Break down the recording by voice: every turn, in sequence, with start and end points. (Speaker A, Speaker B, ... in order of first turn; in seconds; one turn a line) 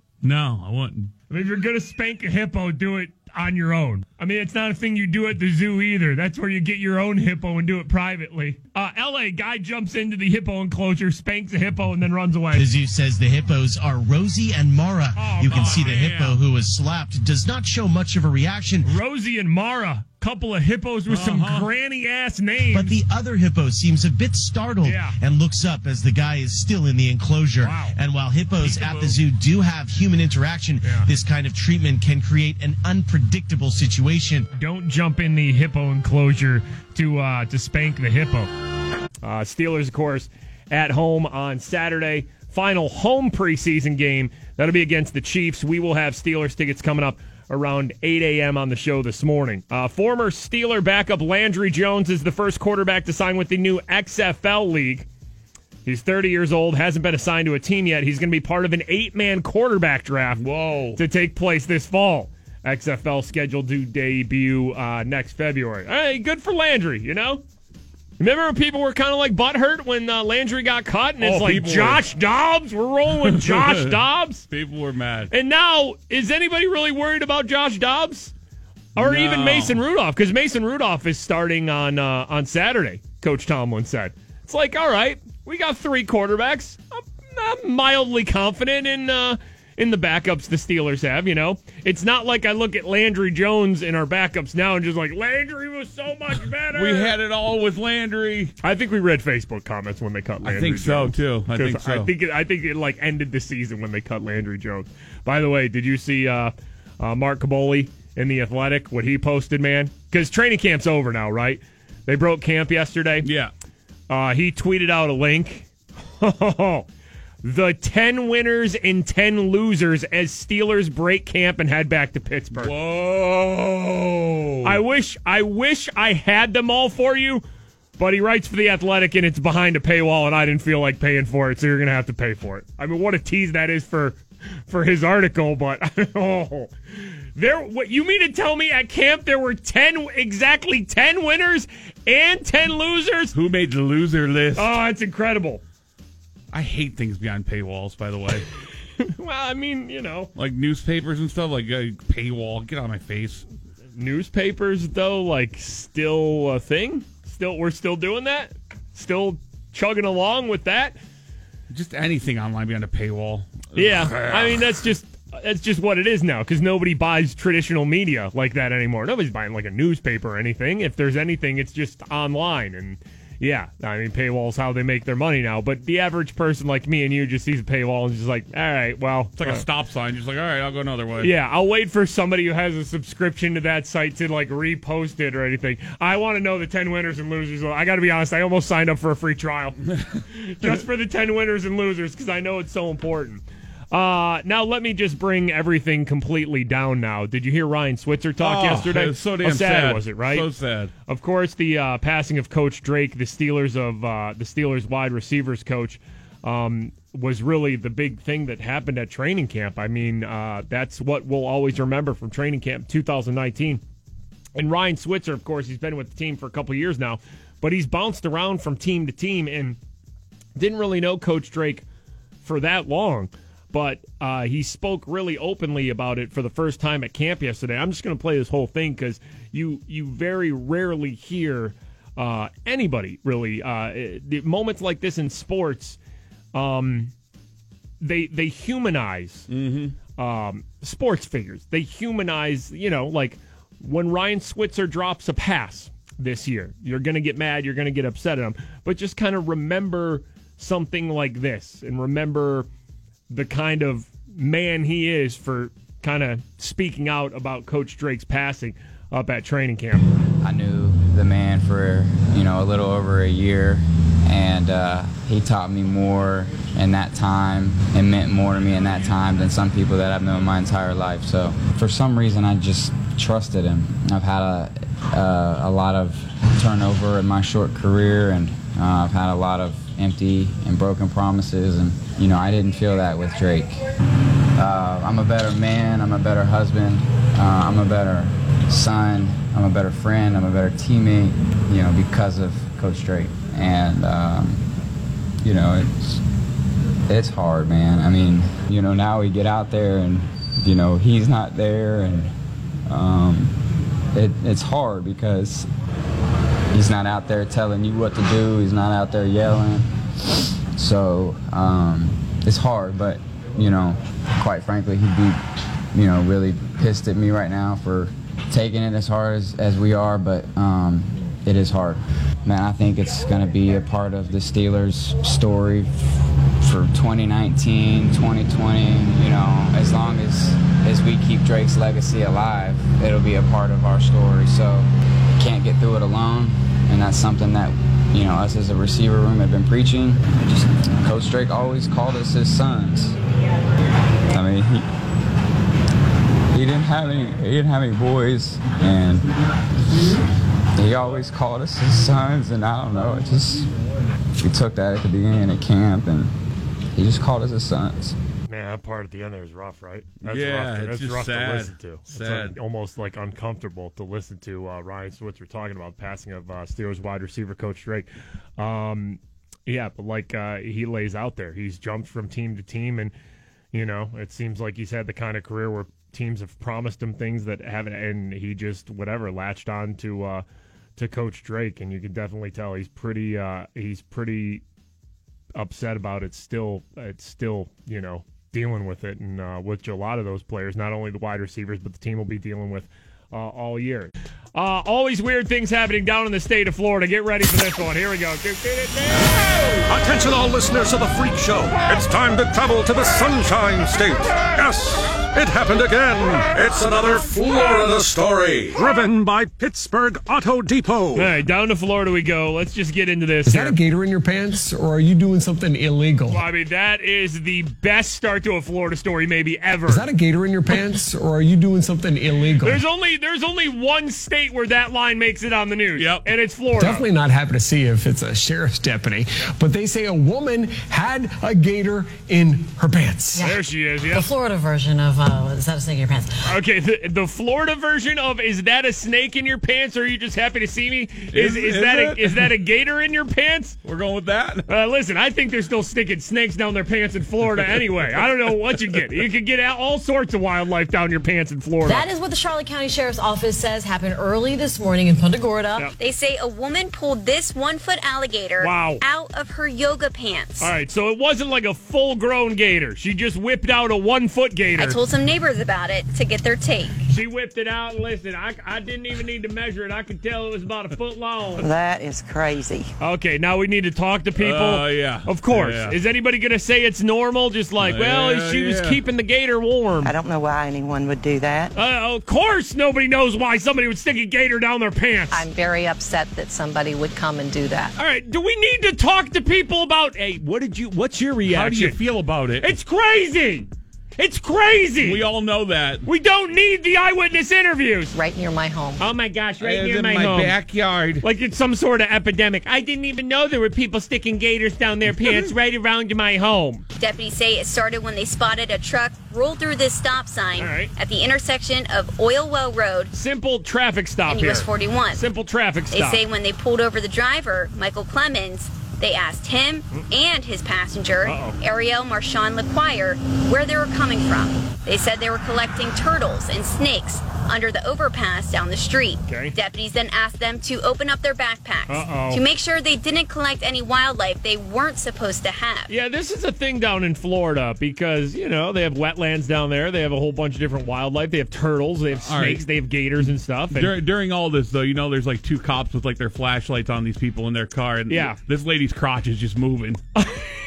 Speaker A: 0.2-1.1
Speaker B: 1.3-12.7
Speaker C: 12.6-18.9
Speaker B: 15.2-16.4
Speaker B: 18.9-22.9
Speaker A: 21.1-21.7
Speaker C: 22.7-34.5
Speaker B: 24.9-25.2
Speaker B: 27.6-28.0
Speaker B: 28.6-29.2
Speaker B: 34.6-38.5
Speaker B: 39.2-55.1
Speaker B: 55.9-60.4
Speaker A: 60.4-61.0
Speaker B: 61.0-67.4
Speaker B: 68.2-74.5
Speaker A: 71.2-72.1
Speaker A: 73.2-75.3
Speaker B: 75.3-78.3
Speaker B: 79.0-97.2
Speaker A: 79.0-79.8
Speaker A: 96.7-98.5
Speaker B: 98.6-113.3
Speaker A: 100.4-102.1
Speaker A: 113.2-113.5
Speaker B: 114.1-115.7
Speaker B: 116.2-116.9
Speaker B: 117.4-122.7
Speaker A: 122.6-124.8
Speaker B: 124.6-127.4
Speaker B: 128.0-134.2
Speaker B: 134.7-136.7
Speaker B: 137.4-143.3
Speaker A: 143.3-144.7
Speaker B: 144.6-145.6
Speaker A: 146.5-148.5
Speaker B: 149.0-150.3
Speaker A: 150.4-153.5
Speaker B: 154.0-161.0
Speaker A: 161.7-164.6
Speaker B: 163.8-179.7
Speaker A: 179.4-181.3
Speaker B: 181.2-189.8
Speaker B: 190.3-200.5
Speaker A: 198.4-200.9
Speaker B: 201.1-213.8
Speaker B: 214.6-219.8
Speaker B: 220.6-221.8
Speaker B: 222.4-236.0
Speaker B: 236.5-237.1
Speaker B: 238.0-239.5
Speaker A: 239.5-240.0
Speaker B: 240.2-252.7
Speaker B: 253.3-260.1
Speaker D: 260.4-283.8
Speaker D: 284.6-294.6
Speaker D: 295.4-296.2
Speaker D: 297.1-302.3
Speaker D: 302.9-303.5
Speaker D: 304.1-305.7
Speaker D: 306.7-309.9
Speaker D: 310.8-315.4
Speaker D: 315.9-334.9
Speaker D: 335.4-343.1
Speaker D: 344.3-344.9
Speaker D: 346.5-349.3
Speaker D: 349.9-350.2
Speaker D: 350.8-353.7
Speaker D: 354.4-356.3
Speaker D: 356.9-358.1
Speaker B: 358.5-373.1
Speaker A: 360.2-362.5
Speaker B: 373.7-380.4
Speaker B: 381.0-384.6
Speaker B: 385.6-399.7
Speaker E: 399.9-411.3
Speaker B: 411.1-413.8
Speaker F: 413.5-416.4
Speaker B: 416.3-420.1
Speaker F: 419.9-422.8
Speaker B: 422.6-427.1
Speaker A: 426.0-426.3
Speaker F: 426.8-433.5
Speaker B: 433.4-434.3
Speaker G: 434.1-436.3
Speaker B: 436.5-443.8
Speaker A: 441.3-442.5
Speaker A: 443.8-444.7
Speaker B: 444.7-452.1
Speaker A: 447.6-449.0
Speaker G: 451.9-455.9
Speaker H: 456.0-460.7
Speaker B: 458.6-459.0
Speaker B: 460.6-465.0
Speaker H: 464.8-467.0
Speaker B: 467.1-471.7
Speaker I: 471.6-472.9
Speaker B: 473.0-480.1
Speaker A: 474.4-476.0
Speaker A: 477.8-479.0
Speaker I: 480.0-481.7
Speaker B: 481.8-485.5
Speaker J: 485.3-487.9
Speaker B: 488.0-492.0
Speaker A: 491.5-492.7
Speaker B: 492.6-493.7
Speaker B: 494.2-495.2
Speaker A: 495.0-496.1
Speaker B: 496.1-498.1
Speaker J: 498.1-499.0
Speaker B: 499.0-500.6
Speaker A: 499.6-501.2
Speaker B: 501.2-506.8
Speaker H: 507.0-513.1
Speaker B: 510.6-510.9
Speaker B: 513.1-516.2
Speaker H: 514.3-515.2
Speaker H: 515.9-535.9
Speaker B: 521.2-521.6
Speaker B: 529.3-529.5
Speaker B: 531.9-532.4
Speaker B: 535.9-543.9
Speaker A: 542.2-542.6
Speaker A: 543.7-550.0
Speaker B: 548.1-548.4
Speaker B: 550.2-550.5